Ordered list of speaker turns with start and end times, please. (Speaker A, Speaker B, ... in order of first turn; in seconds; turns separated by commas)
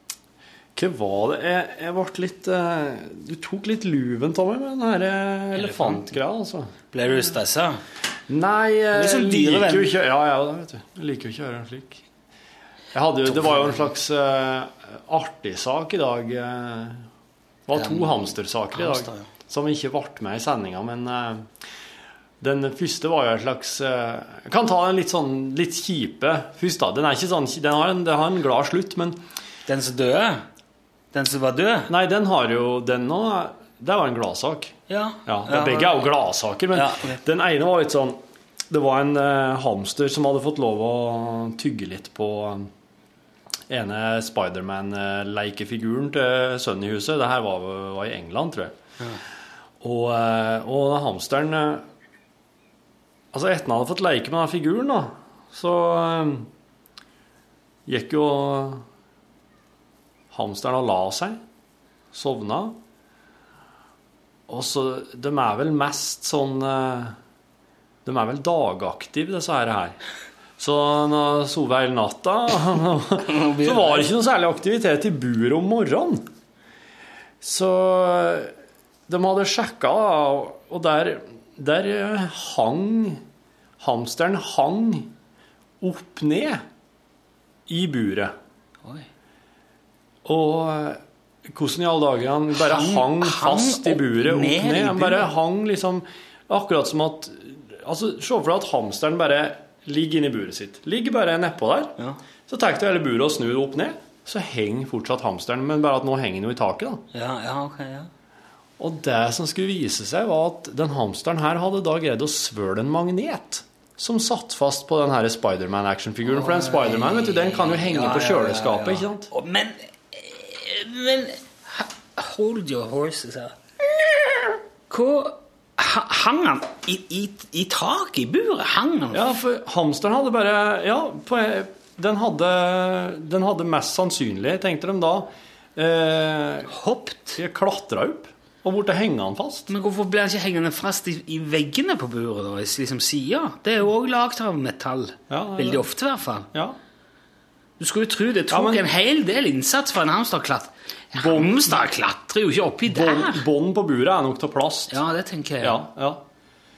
Speaker A: 0.8-6.7, Speaker B: 5.5-6.0, Speaker B: 6.9-7.8, Speaker A: 8.3-12.0, Speaker B: 8.9-9.9, Speaker A: 12.9-17.1, Speaker B: 13.3-13.9, Speaker A: 17.7-21.5, Speaker B: 17.7-19.3, Speaker A: 22.4-29.2, Speaker B: 29.7-30.4, Speaker B: 31.1-31.9, Speaker A: 31.9-34.7, Speaker B: 34.9-36.1, Speaker A: 35.2-38.2, Speaker B: 36.7-37.2, Speaker A: 38.7-42.7, Speaker A: 43.7-48.8, Speaker A: 49.8-51.9, Speaker A: 53.3-56.5, Speaker A: 57.9-58.9, Speaker A: 60.3-61.4, Speaker A: 62.1-62.8, Speaker A: 64.5-67.2, Speaker A: 68.0-70.0, Speaker A: 70.6-76.2, Speaker B: 73.2-74.1, Speaker A: 77.4-78.5, Speaker A: 79.1-83.2, Speaker A: 83.8-85.1, Speaker A: 85.8-86.6, Speaker A: 87.7-88.3, Speaker A: 90.2-101.9, Speaker B: 92.5-95.3, Speaker A: 102.5-107.0, Speaker B: 107.1-108.1, Speaker A: 108.8-119.3, Speaker B: 116.2-123.6, Speaker B: 124.1-129.4, Speaker A: 129.1-136.7, Speaker B: 136.7-137.4, Speaker A: 137.3-139.7, Speaker B: 139.7-146.5, Speaker A: 145.3-145.8, Speaker B: 147.8-153.4, Speaker A: 148.5-148.8, Speaker A: 151.1-151.8, Speaker A: 152.9-155.0, Speaker B: 154.9-155.8, Speaker A: 155.6-156.2